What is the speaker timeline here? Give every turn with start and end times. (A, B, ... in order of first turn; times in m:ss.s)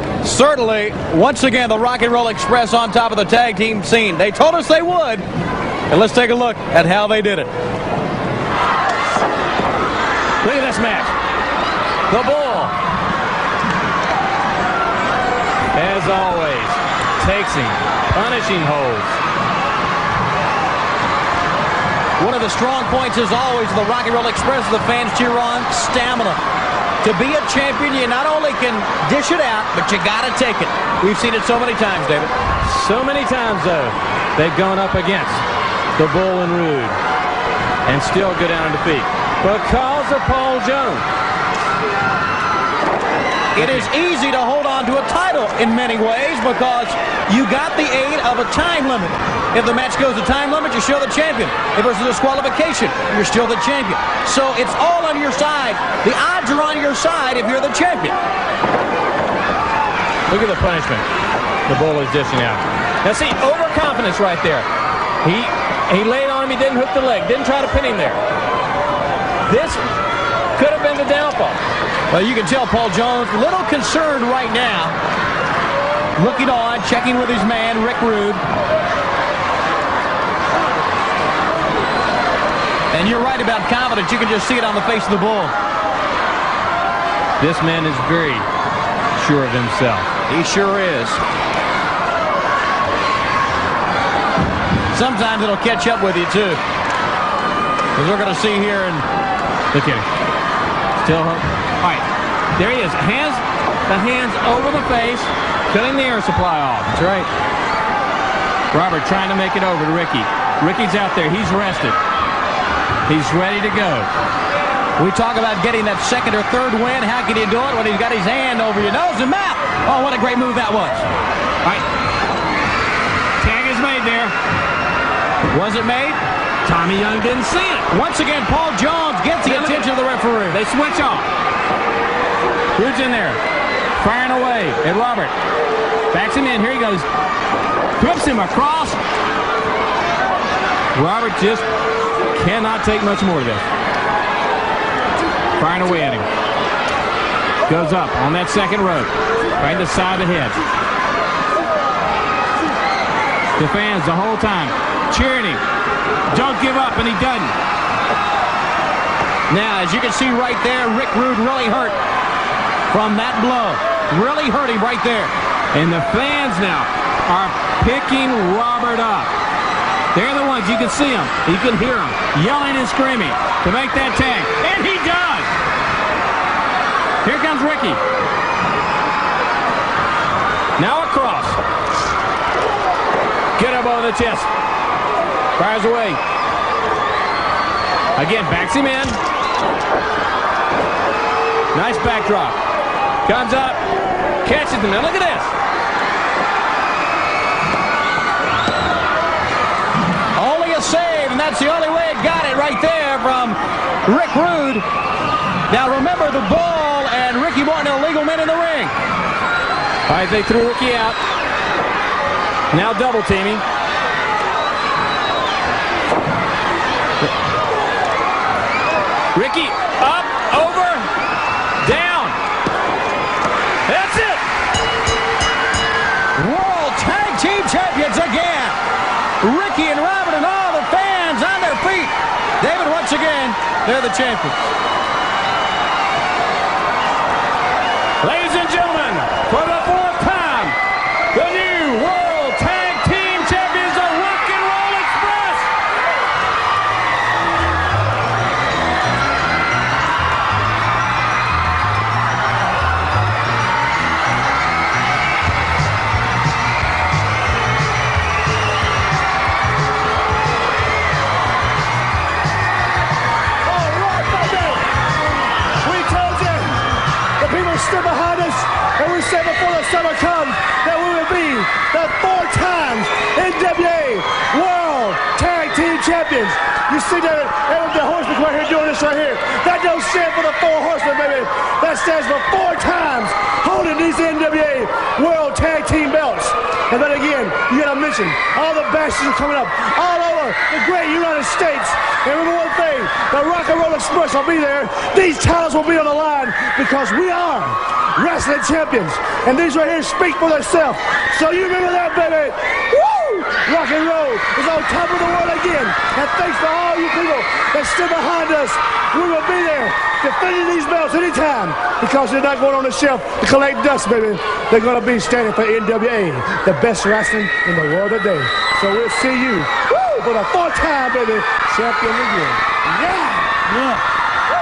0:00.2-0:05.2 A
0:05.9-0:07.5 A
0:10.4-0:11.1 B
0:12.1-0:12.8 B
0:15.7-0:19.2 B
0:22.2-0:26.4 A
0:27.0-0:32.3 A
0:32.6-0:35.4 B
0:36.0-0:37.0 B
0:37.9-0:41.1 B
0:43.6-0:58.2 A
0:43.6-0:43.9 B
1:00.3-1:01.1 B
1:01.7-1:04.7 B
1:05.2-1:08.2 B
1:09.5-1:09.8 B
1:10.6-1:11.6 B
1:12.1-1:15.0 A
1:16.2-1:18.4 A
1:22.9-1:25.6 A
1:27.4-1:28.5 B
1:29.2-1:30.1 B
1:30.3-1:31.2 A
1:34.9-1:36.6 A
1:38.0-1:39.1 A
1:39.7-1:40.1 B
1:41.0-1:47.3 B
1:48.7-1:52.0 B
1:53.1-1:54.1 B
1:55.0-2:01.1 A
2:03.4-2:04.4 B
2:05.5-2:06.2 A
2:06.6-2:07.9 B
2:07.9-2:10.6 A
2:09.4-2:09.9 B
2:10.5-2:11.3 B
2:12.8-2:13.4 B
2:14.0-2:15.3 B
2:16.1-2:17.1 B
2:18.0-2:19.0 B
2:20.9-2:21.7 B
2:22.3-2:23.6 B
2:25.6-2:26.3 B
2:27.7-2:30.6 B
2:33.6-2:35.6 B
2:36.3-2:37.6 B
2:39.5-2:42.0 A
2:42.9-2:45.3 A
2:45.7-2:49.3 B
2:50.1-2:55.5 B
2:57.2-2:58.0 B
3:00.8-3:01.6 B
3:03.6-3:04.5 B
3:05.6-3:06.2 B
3:08.2-3:09.2 B
3:11.7-3:12.6 B
3:13.2-3:13.8 B
3:14.4-3:15.5 B
3:20.4-3:24.8 A
3:25.7-3:28.9 A
3:30.1-3:31.2 B
3:32.7-3:33.6 B
3:39.3-3:41.1 B
3:41.8-3:42.4 B
3:43.9-3:44.4 B
3:46.4-3:48.8 A
3:49.4-3:54.7 A
3:58.2-4:00.8 B
4:01.3-4:05.7 B
4:23.6-4:24.9 C
4:25.8-4:26.8 C
4:27.4-5:23.6 C